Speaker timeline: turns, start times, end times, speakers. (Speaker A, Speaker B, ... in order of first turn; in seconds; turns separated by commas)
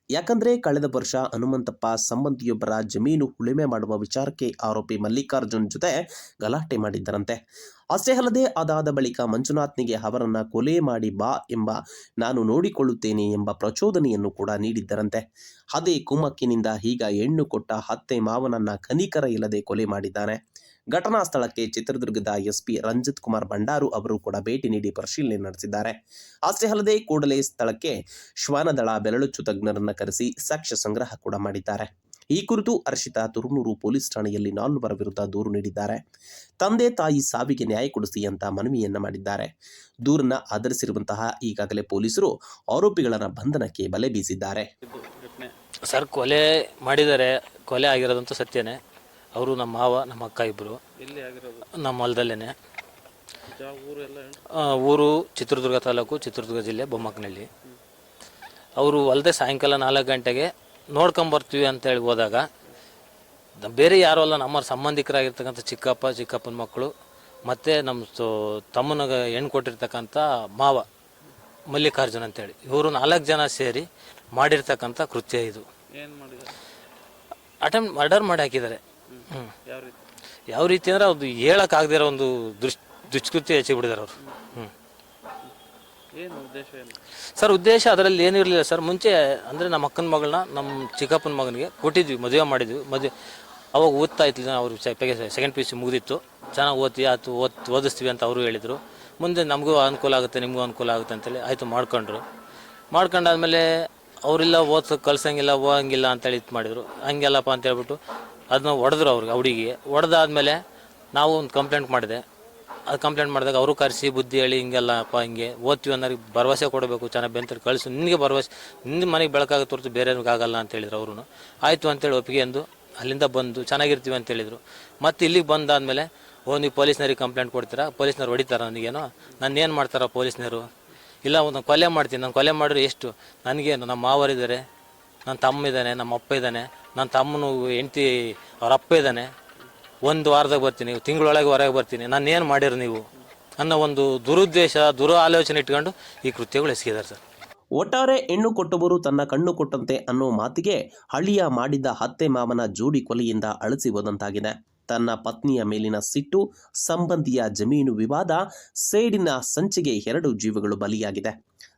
Speaker A: 0.2-7.4, Speaker A: 8.0-15.2, Speaker A: 15.7-20.4, Speaker A: 20.9-26.0, Speaker A: 26.5-36.0, Speaker A: 36.6-39.5, Speaker A: 40.1-44.7, Speaker B: 44.8-45.5, Speaker C: 45.9-48.8, Speaker C: 49.4-50.8, Speaker B: 51.0-51.7, Speaker C: 51.8-52.5, Speaker B: 53.5-54.4, Speaker C: 54.6-57.5, Speaker C: 58.8-62.5, Speaker C: 63.6-66.9, Speaker C: 67.5-70.9, Speaker C: 71.7-75.7, Speaker B: 76.0-76.6, Speaker C: 77.6-79.5, Speaker B: 79.1-80.1, Speaker C: 80.5-84.7, Speaker B: 84.2-84.5, Speaker B: 86.2-87.0, Speaker C: 87.4-93.1, Speaker C: 93.7-102.2, Speaker C: 102.9-103.7, Speaker C: 104.3-108.0, Speaker C: 108.5-110.6, Speaker C: 111.2-112.2, Speaker C: 112.9-130.7, Speaker C: 131.2-134.6, Speaker C: 135.3-139.3, Speaker C: 140.1-143.0, Speaker C: 143.6-147.2, Speaker A: 147.8-161.4